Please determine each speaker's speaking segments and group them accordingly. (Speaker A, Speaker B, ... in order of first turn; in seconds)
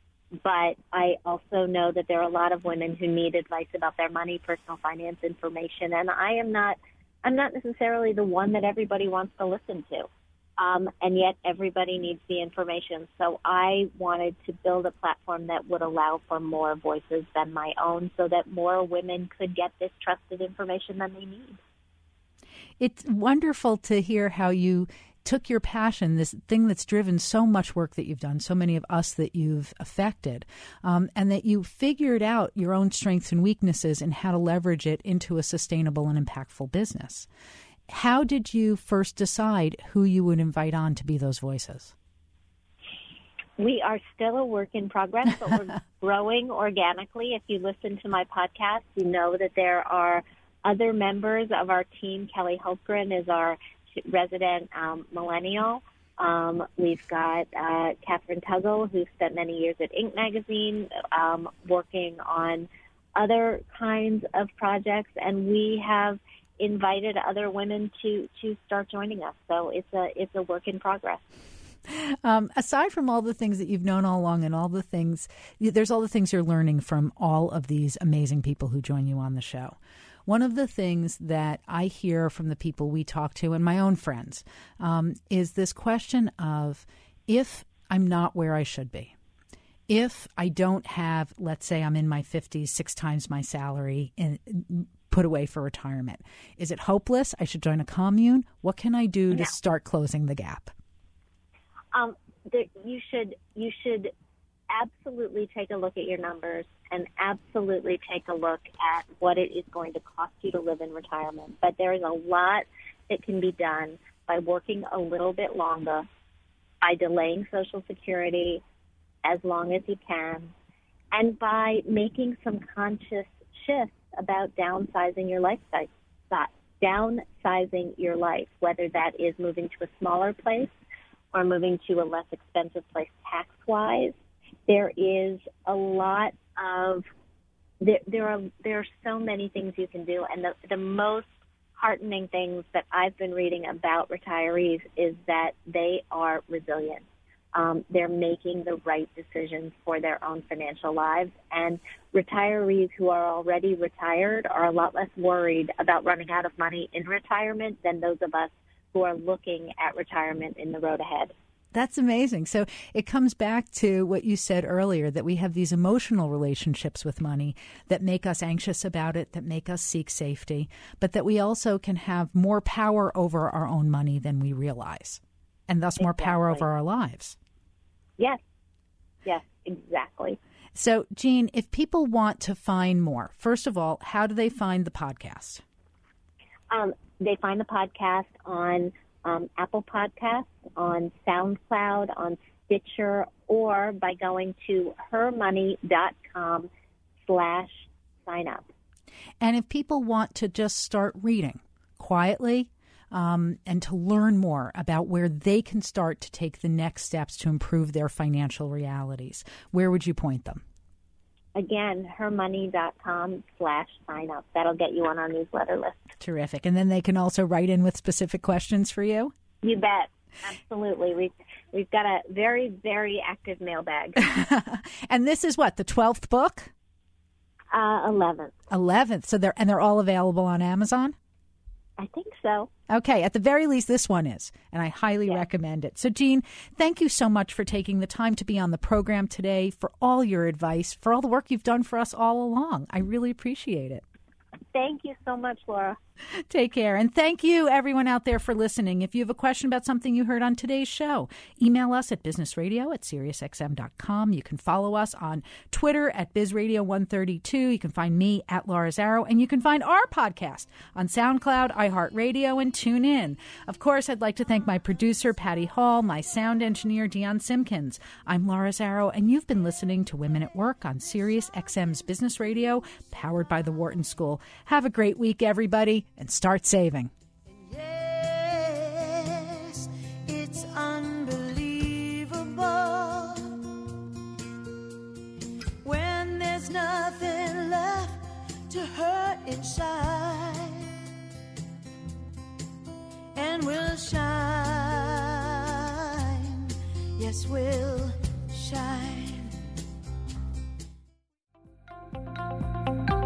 Speaker A: 0.4-21.6, 43.6-71.2, 101.9-104.1, 104.7-116.1, 116.8-118.6, 119.2-120.5, 121.1-130.7, 131.3-134.2, 134.7-137.0, 137.8-161.3, 176.0-176.6, 179.2-180.4, 186.7-196.7, 197.2-198.7, 211.5-216.0, 219.6-224.2, 227.7-228.5, 232.0-232.7, 244.7-246.0
Speaker B: 22.8-37.3, 37.9-41.9, 71.9-89.1, 89.9-100.7, 161.7-177.4, 180.7-185.6, 199.4-210.6, 216.2-219.3, 224.2-226.7, 228.7-231.2, 232.9-244.0, 246.5-277.1
Speaker C: 277.6-283.6, 285.8-290.9, 293.3-299.5